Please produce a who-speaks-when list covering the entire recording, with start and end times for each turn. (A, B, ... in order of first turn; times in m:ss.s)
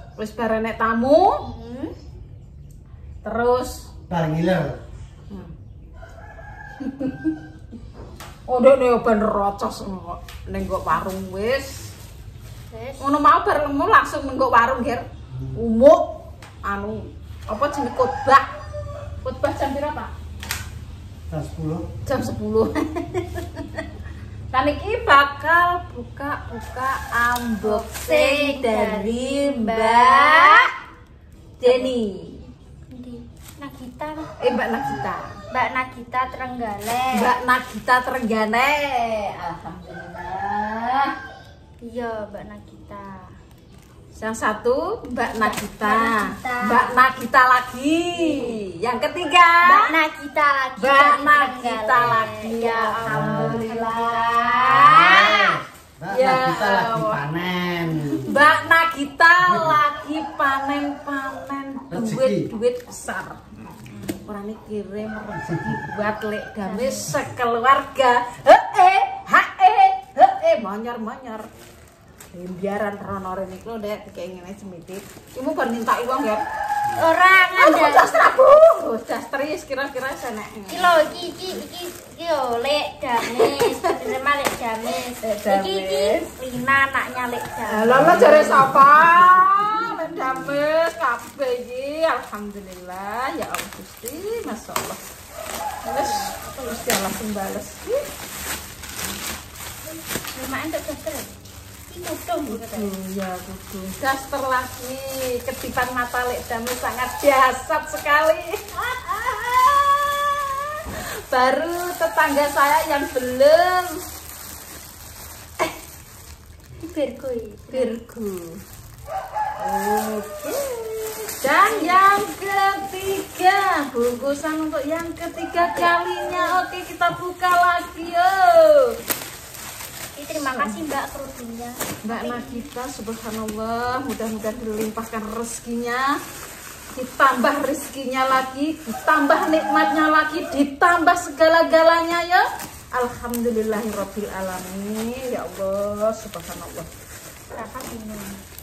0:00.2-0:01.4 A
0:01.4-0:01.9 B
0:03.2-0:03.9 A
0:04.1-0:04.8 C
0:06.8-0:07.3 A
0:08.5-0:11.9 A
0:12.7-0:13.0 B
0:13.0-0:16.1 A
0:16.6-0:18.4 A
0:19.2-0:20.1 A
0:21.3-0:21.9 C
0:22.0-0:23.8 A
0:24.5-0:30.7 A
0:27.6-0:30.7 B
0:31.6-0:32.4 A
0:31.6-0:32.0 B
0:32.9-0:34.3 B
0:34.4-0:35.3 A
0:35.5-0:37.3 B
0:37.1-0:41.1 A
0:41.8-0:43.3 B
0:44.1-0:50.0 A
0:45.2-0:47.0 B
0:48.1-0:48.6 B
0:49.6-0:55.4 B
0:50.8-0:55.5 A
0:53.0-0:53.7 C
0:54.7-0:58.3 C
0:56.1-0:57.2 A
0:57.9-0:58.3 B
0:58.2-1:03.4 A
0:59.4-0:59.8 C
1:01.9-1:02.5 C
1:03.9-1:04.2 B
1:04.2-1:11.5 A
1:05.5-1:05.8 C
1:06.6-1:07.2 B
1:12.3-1:16.4 A
1:17.0-1:18.3 B
1:17.6-1:21.1 A
1:20.7-1:28.6 B
1:23.4-1:23.7 A
1:25.2-1:26.3 A
1:27.7-1:35.0 A
1:27.9-1:28.9 C
1:35.8-1:36.3 B
1:35.8-1:38.0 A
1:40.3-1:41.3 B
1:41.9-1:42.9 B
1:42.5-1:48.6 A
1:48.7-1:50.4 B
1:51.3-1:54.0 A
1:56.8-1:58.0 B
1:57.7-1:58.6 A
1:59.6-2:08.9 A
2:01.6-2:02.1 B
2:05.6-2:06.6 B
2:10.2-2:12.7 B
2:10.3-2:10.8 A
2:12.0-2:16.1 A
2:17.0-2:26.9 A
2:27.5-2:28.4 B